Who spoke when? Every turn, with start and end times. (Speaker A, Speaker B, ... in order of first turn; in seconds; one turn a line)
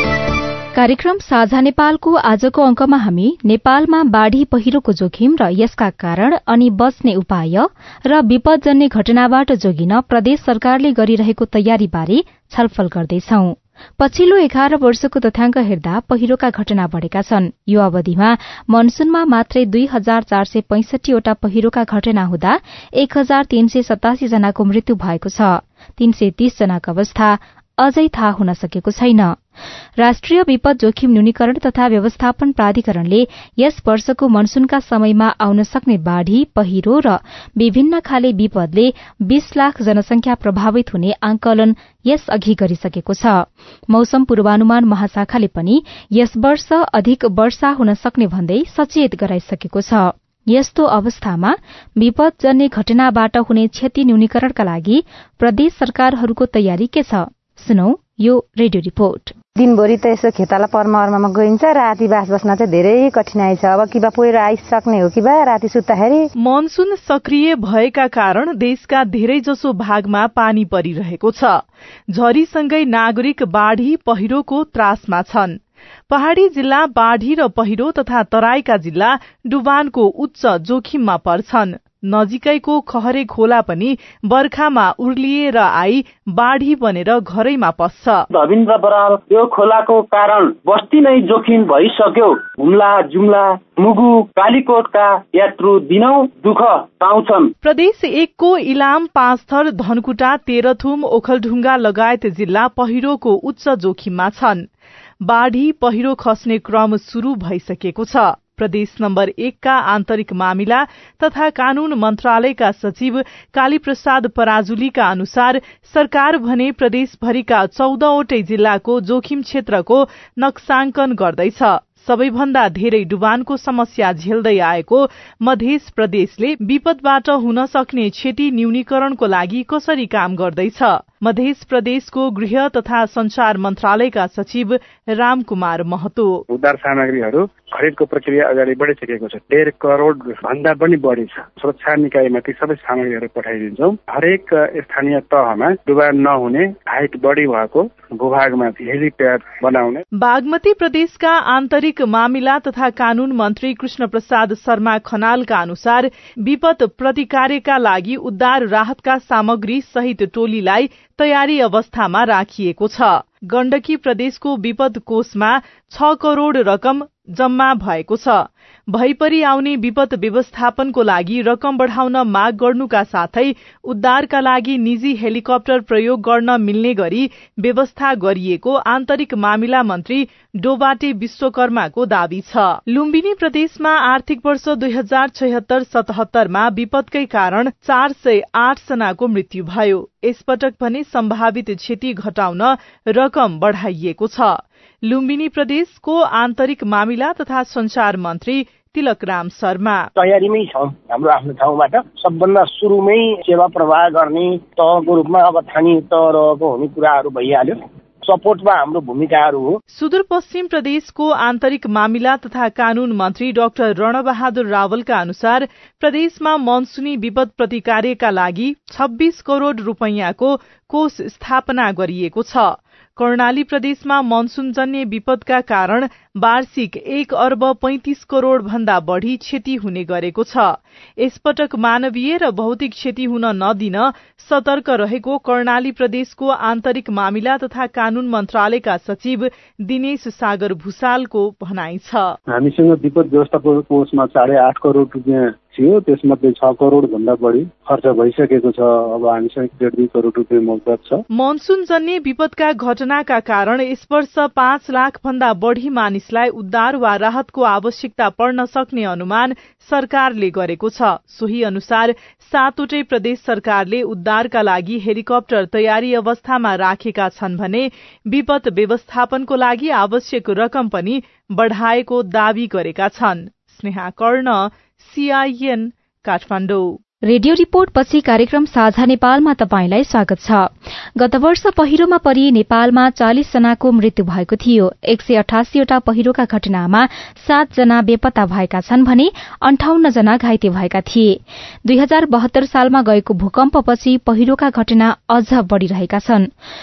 Speaker A: 0.8-29.3
Speaker A: 30.0-59.4
Speaker B: 59.6-66.3
Speaker C: 66.4-75.6
Speaker C: 76.1-88.2
Speaker D: 88.3-97.5
Speaker C: 97.6-104.7
Speaker C: 105.2-136.4
Speaker E: 136.5-150.0
Speaker C: 150.2-200.1
Speaker F: 200.2-209.8
Speaker C: 209.9-242.4
Speaker E: 242.5-251.2
Speaker C: 251.3-277.0
Speaker A: 277.3-296.5